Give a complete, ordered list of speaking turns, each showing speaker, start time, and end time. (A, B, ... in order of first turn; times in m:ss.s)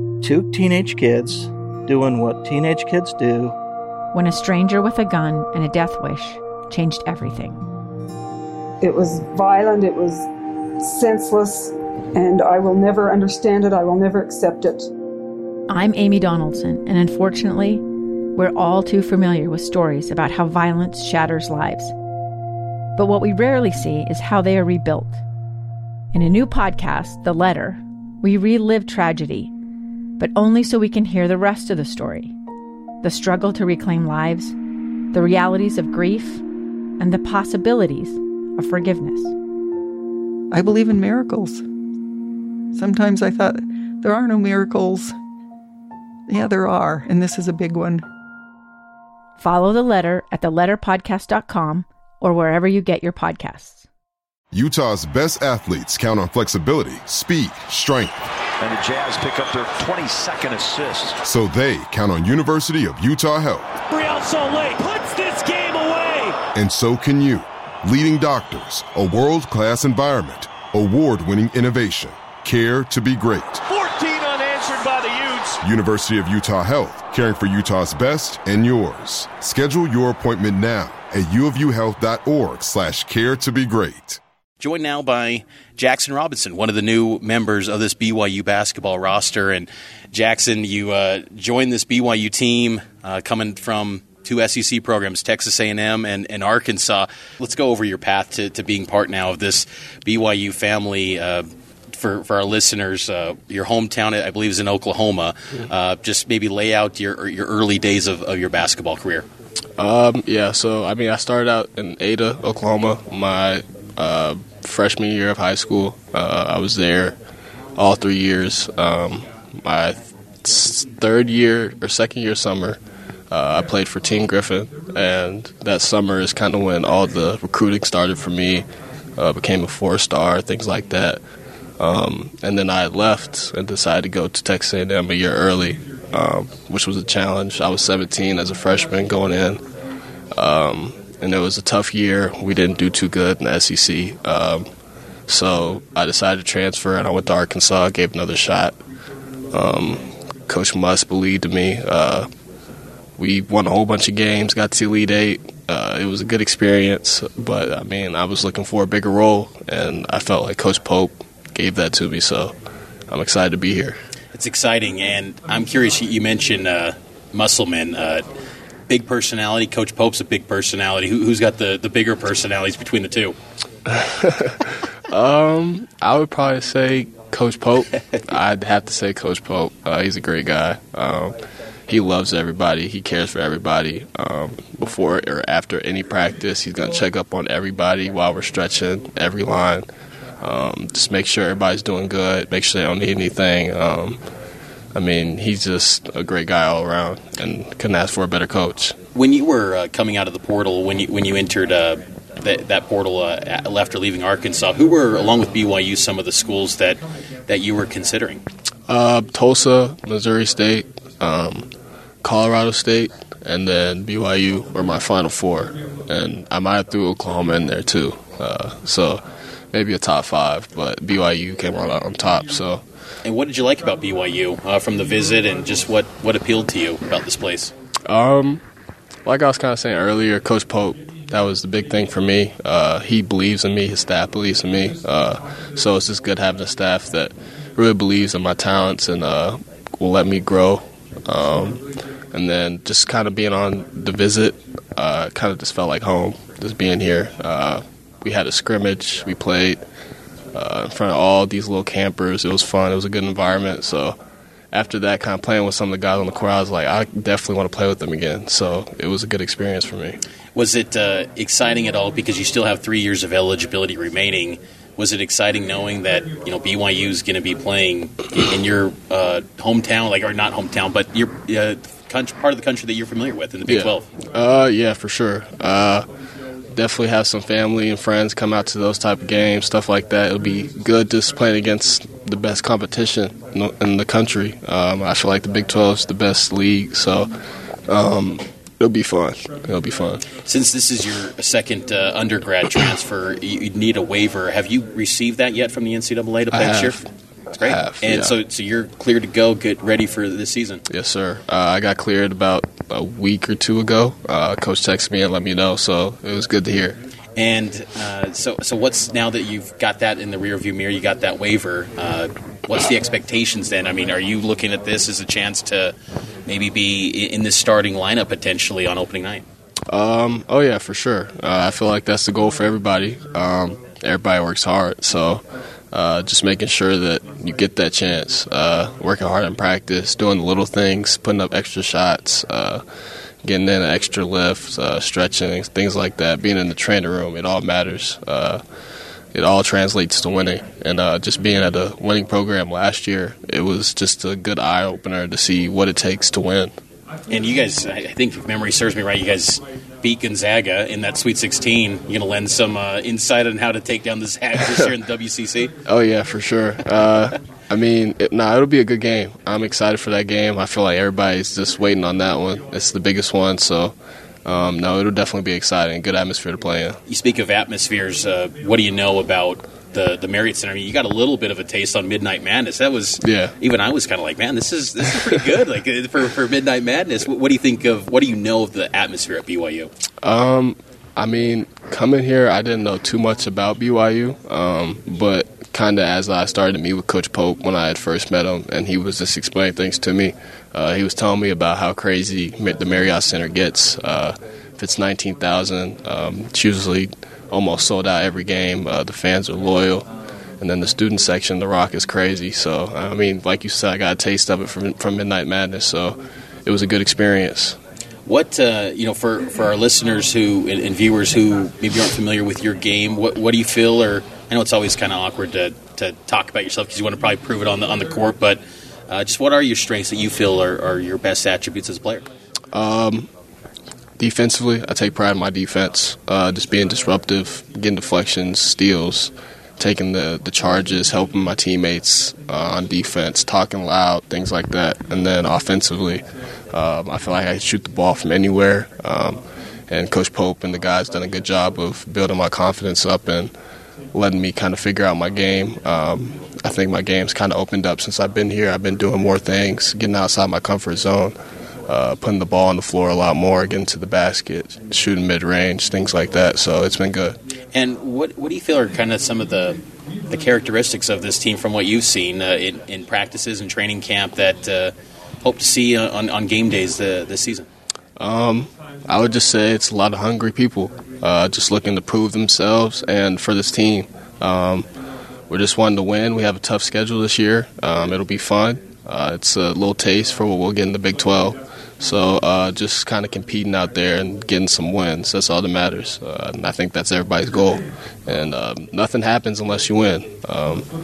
0:00.2-0:03.6 A
0:04.1-0:07.6 B
0:08.8-0:10.3 C
0:10.8-0:14.9 C
0:15.7-0:17.8 B
0:18.4-0:21.9 B
0:23.0-0:25.2 B
0:26.1-0:29.5 B
0:30.2-0:32.3 B
0:33.0-0:34.5 B
0:35.1-0:36.4 B
0:37.0-0:39.3 B
0:40.5-0:41.6 D
0:42.7-0:45.1 D
0:46.3-0:48.0 D
0:49.4-0:53.8 B
0:54.5-0:58.2 E
0:58.6-1:01.2 F
1:01.2-1:03.7 E
1:03.8-1:06.4 G
1:06.5-1:13.6 E
1:13.7-1:15.6 G
1:15.6-1:24.2 E
1:24.6-1:49.2 H
1:49.8-1:57.2 I
1:57.8-2:02.8 I
2:03.3-2:08.6 I
2:09.2-2:11.2 I
2:11.8-2:19.6 I
2:20.3-2:24.6 I
2:25.3-2:28.8 I
2:29.5-2:32.3 I
2:33.2-2:42.5 I
2:43.1-2:44.0 I
2:44.3-2:48.2 H
2:48.9-2:53.3 H
2:53.9-3:01.4 I
3:01.9-3:09.8 I
3:10.4-3:14.2 I
3:14.9-3:19.0 I
3:19.1-3:28.4 H
3:28.9-3:31.7 I
3:32.2-3:39.2 I
3:39.7-3:42.8 I
3:43.2-3:47.7 H
3:48.1-3:48.6 I
3:49.2-4:09.8 I
4:10.5-4:14.2 I
4:14.7-4:20.2 I
4:20.5-4:34.1 H
4:33.6-4:36.1 I
4:36.7-4:47.3 I
4:47.9-4:50.2 I
4:50.4-4:57.0 H
4:56.5-4:57.1 I
4:57.5-5:00.8 H
4:57.6-4:58.3 I
5:00.9-5:07.0 I
5:07.4-5:15.9 H
5:16.4-5:19.4 H
5:19.9-5:32.8 I
5:33.4-5:38.6 I
5:39.3-5:46.7 I
5:47.3-5:55.7 H
5:55.8-6:07.0 I
6:07.1-6:19.9 H
6:13.2-6:13.5 I
6:20.2-6:40.1 I
6:40.6-6:47.8 I
6:48.2-7:02.3 H
7:02.7-7:03.3 I
7:04.2-7:23.5 I
7:24.1-7:31.3 I
7:31.9-7:37.4 I
7:37.7-7:47.7 H
7:48.2-7:54.9 I
7:55.5-8:10.9 I